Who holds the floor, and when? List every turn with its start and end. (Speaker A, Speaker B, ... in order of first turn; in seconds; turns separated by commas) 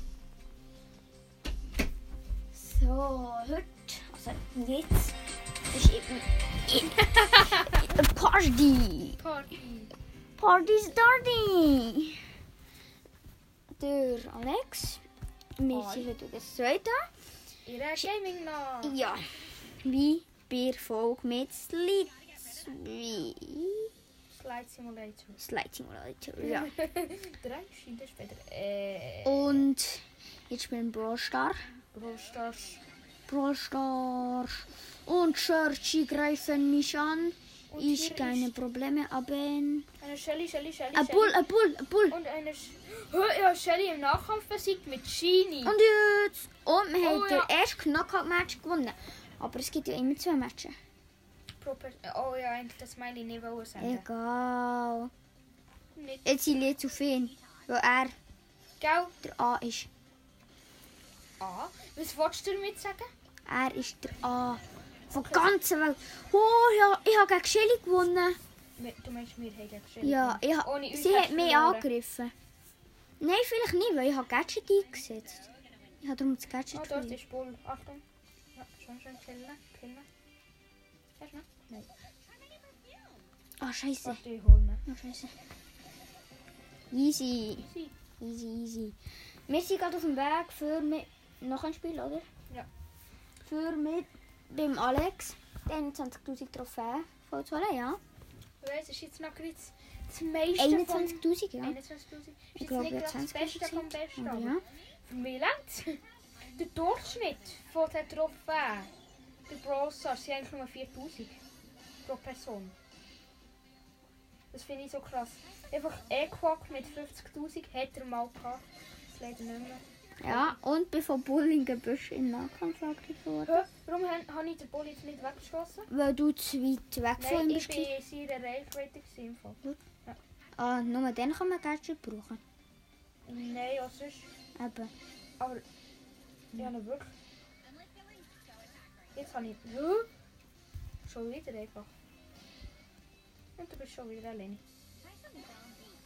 Speaker A: 2.5-9.2, Speaker B: 7.0-7.9, Speaker B: 9.2-9.9, Speaker A: 10.4-12.3, Speaker A: 13.8-15.0, Speaker A: 15.6-17.1, Speaker B: 15.7-16.1, Speaker B: 17.6-19.1, Speaker A: 18.8-23.9, Speaker B: 24.3-25.4, Speaker A: 25.4-26.7, Speaker B: 26.4-29.7, Speaker A: 29.2-31.7, Speaker B: 31.9-32.8, Speaker A: 33.3-39.9, Speaker B: 37.7-38.5, Speaker B: 40.0-41.4, Speaker A: 40.9-42.2, Speaker B: 42.1-45.8, Speaker A: 45.6-50.8, Speaker B: 47.0-47.5, Speaker B: 51.6-54.0, Speaker A: 53.8-55.1, Speaker B: 56.0-56.3, Speaker A: 56.2-58.2, Speaker B: 58.8-59.1, Speaker A: 59.2-59.9, Speaker B: 61.4-63.1, Speaker A: 63.5-68.4, Speaker B: 65.1-65.5, Speaker B: 68.8-71.9, Speaker A: 70.0-72.3, Speaker A: 73.2-75.5, Speaker A: 76.0-77.2, Speaker B: 76.7-78.0, Speaker B: 78.5-80.1, Speaker B: 81.2-81.9, Speaker A: 83.6-84.2, Speaker B: 84.0-84.8, Speaker A: 84.8-85.3, Speaker A: 86.9-87.7, Speaker B: 87.6-87.9, Speaker A: 88.2-92.3, Speaker A: 93.4-98.0, Speaker B: 98.6-108.9, Speaker A: 100.5-101.8, Speaker A: 102.5-104.6, Speaker B: 109.5-111.4, Speaker B: 112.0-112.7, Speaker B: 114.5-120.6, Speaker A: 120.2-123.6, Speaker B: 123.5-125.9, Speaker A: 125.9-127.9, Speaker B: 127.2-130.2, Speaker A: 130.6-132.4, Speaker B: 133.3-134.3, Speaker A: 134.6-134.9, Speaker B: 136.5-137.1, Speaker B: 139.1-140.1, Speaker B: 141.1-141.9, Speaker B: 143.6-144.6